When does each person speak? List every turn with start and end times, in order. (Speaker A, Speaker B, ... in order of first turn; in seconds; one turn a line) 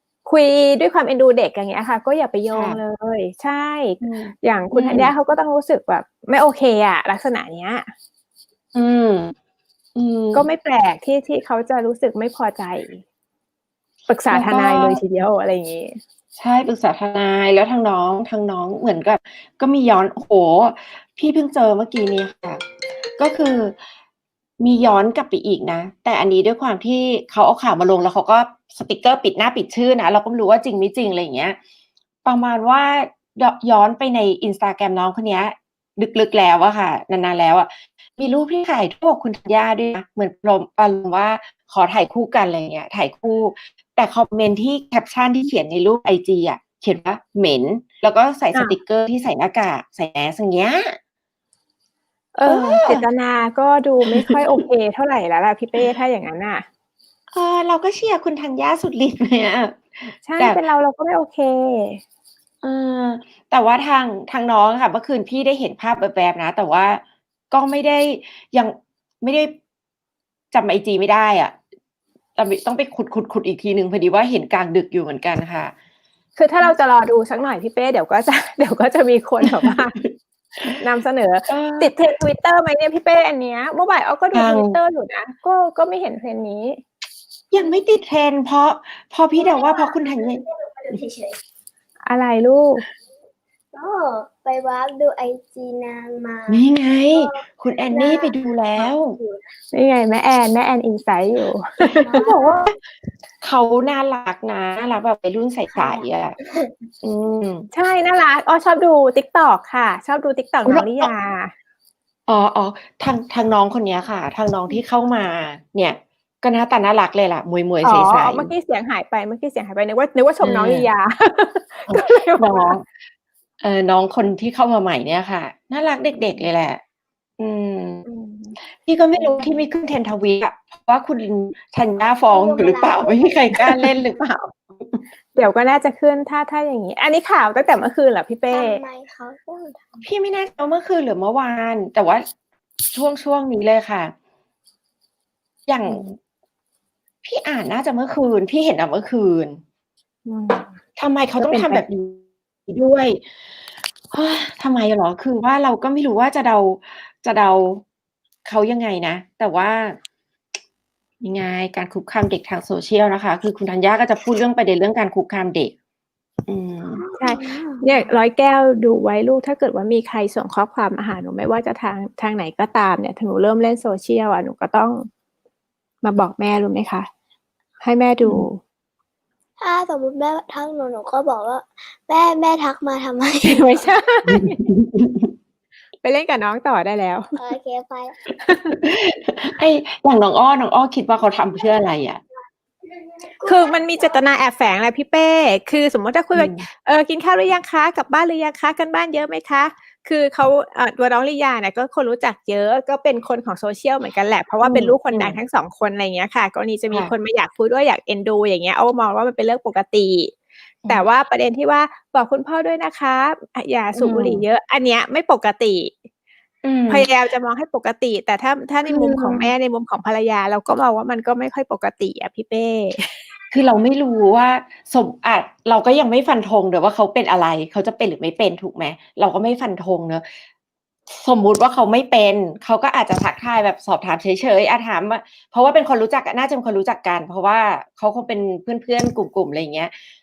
Speaker A: 0.2-7.9
Speaker B: 2.5-2.8
Speaker B: 4.0-5.1
Speaker B: 8.7-9.3
Speaker B: 9.9-10.5
Speaker A: 10.3-13.0
Speaker A: 14.1-16.0
Speaker B: 14.3-15.0
Speaker B: 16.4-22.6
Speaker B: 23.2-23.8
Speaker B: 24.6-31.6
Speaker B: 32.2-51.0
Speaker A: 52.3-56.6
Speaker B: 52.5-53.0
Speaker B: 57.3-60.6
Speaker A: 60.2-62.0
Speaker B: 62.6-69.5
Speaker B: 70.5-71.5
Speaker B: 72.3-75.7
Speaker A: 76.3-80.0
Speaker B: 79.4-80.1
Speaker A: 80.7-86.8
Speaker B: 81.5-81.9
Speaker B: 84.3-84.8
Speaker B: 87.5-90.4
Speaker C: 89.4-90.3
Speaker C: 90.8-91.3
Speaker A: 92.0-92.8
Speaker C: 93.7-96.6
Speaker B: 96.5-99.2
Speaker C: 97.2-99.4
Speaker A: 99.7-102.2
Speaker C: 102.0-102.5
Speaker B: 102.1-102.8
Speaker B: 103.4-106.4
Speaker C: 105.7-106.7
Speaker B: 107.0-107.7
Speaker A: 107.7-111.5
Speaker B: 110.7-111.1
Speaker B: 112.3-118.5
Speaker A: 117.8-122.7
Speaker B: 120.4-120.9
Speaker B: 121.9-122.9
Speaker B: 123.6-126.8
Speaker B: 127.4-128.0
Speaker A: 128.1-128.6
Speaker B: 128.8-135.0
Speaker A: 129.2-129.6
Speaker C: 132.3-133.2
Speaker A: 133.6-133.8
Speaker A: 135.3-138.8
Speaker C: 138.5-140.0
Speaker B: 140.0-142.2
Speaker B: 142.9-144.1
Speaker B: 145.7-146.0
Speaker A: 145.8-146.1
Speaker B: 147.2-149.6
Speaker A: 150.2-150.8
Speaker B: 151.0-153.2
Speaker A: 151.4-151.8
Speaker B: 154.1-157.8
Speaker B: 158.4-159.9
Speaker B: 161.2-165.7
Speaker B: 166.5-167.0
Speaker C: 167.0-167.9
Speaker A: 167.2-175.1
Speaker A: 176.0-177.1
Speaker A: 177.8-178.6
Speaker C: 179.6-183.7
Speaker A: 183.4-184.6
Speaker B: 184.3-185.3
Speaker A: 186.0-187.3
Speaker C: 187.3-188.2
Speaker A: 188.4-188.8
Speaker B: 188.8-192.2
Speaker A: 193.4-210.3
Speaker B: 196.3-196.7
Speaker B: 204.6-205.4
Speaker A: 210.9-216.1
Speaker B: 213.9-214.4
Speaker B: 216.6-217.1
Speaker A: 216.9-223.1
Speaker B: 218.8-219.5
Speaker B: 223.5-230.2
Speaker B: 231.1-239.9